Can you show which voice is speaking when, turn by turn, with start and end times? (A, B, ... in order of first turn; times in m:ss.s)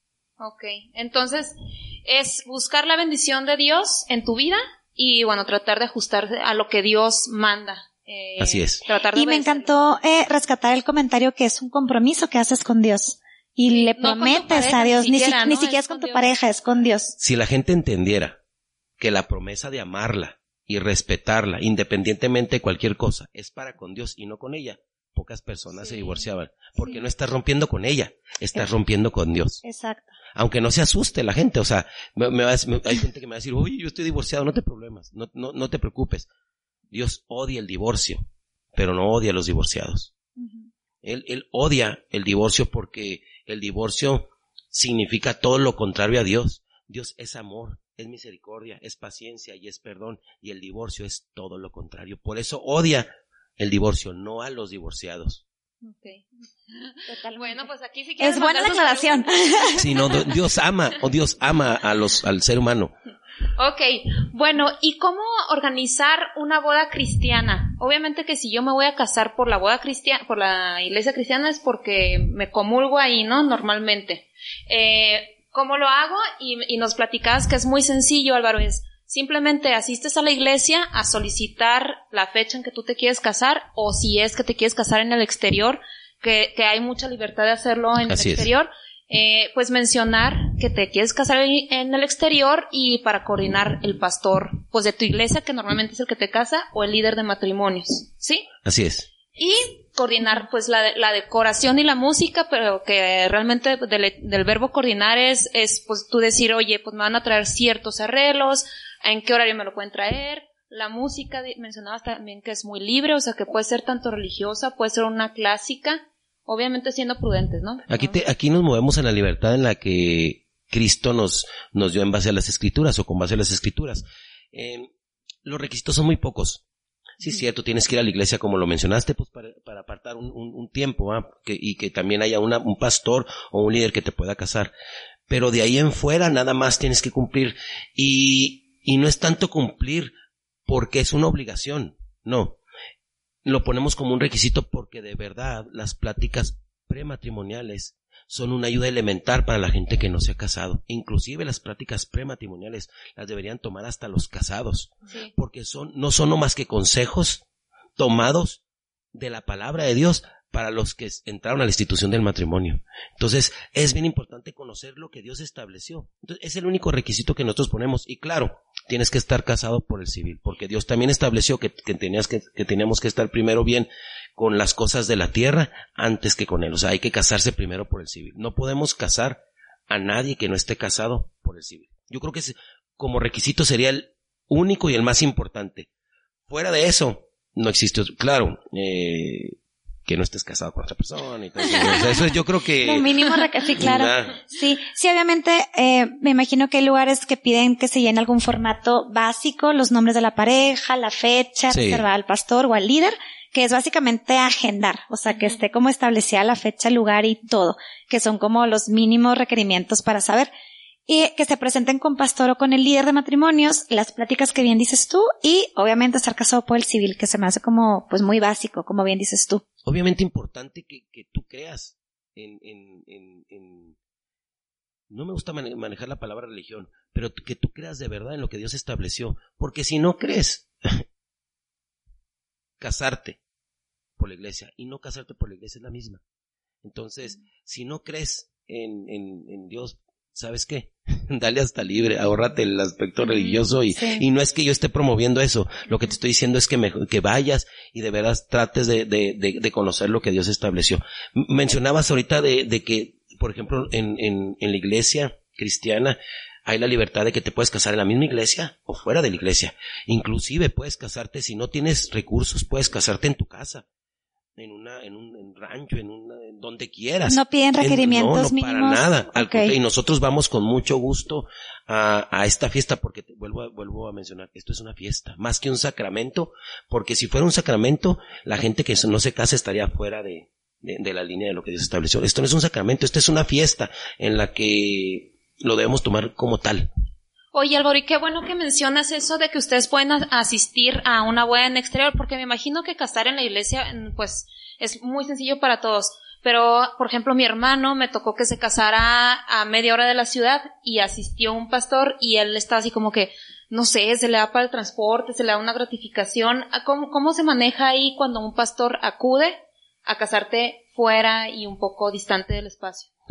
0:00.4-0:09.8 A
0:08.4-0:08.8 B
0:09.1-0:17.1 C
0:13.7-0:16.3 A
0:17.2-0:18.4 B
0:19.0-0:29.6 B
0:25.8-0:26.2 A
0:29.6-0:30.2 C
0:30.3-0:36.3 B
0:36.9-0:38.2 B
0:38.8-0:40.1 B
0:40.4-0:40.7 C
0:41.0-0:55.4 B
0:55.8-1:00.2 A
0:57.1-0:57.6 C
0:58.2-0:59.9 C
0:59.8-1:02.9 B
1:03.6-1:38.5 A
1:28.0-1:28.5 B
1:38.6-1:39.1 B
1:39.4-1:58.2 A
1:57.9-2:04.9 B
2:05.4-2:06.6 B
2:07.2-2:14.7 B
2:15.3-2:20.1 B
2:20.7-2:22.6 B
2:23.4-2:37.4 B
2:38.0-2:38.6 B
2:39.1-3:05.9 B
3:06.5-3:13.2 B
3:11.7-3:12.2 C
3:12.8-3:30.5 C
3:13.8-3:14.4 B
3:21.7-3:22.0 B
3:31.1-3:39.6 C
3:39.8-3:44.0 B
3:45.1-3:51.0 B
3:52.8-3:53.4 B
3:54.2-3:56.2 B
3:56.8-4:23.9 B
4:03.2-4:04.2 C
4:24.6-4:46.9 B
4:27.3-4:29.8 C
4:47.5-5:13.1 A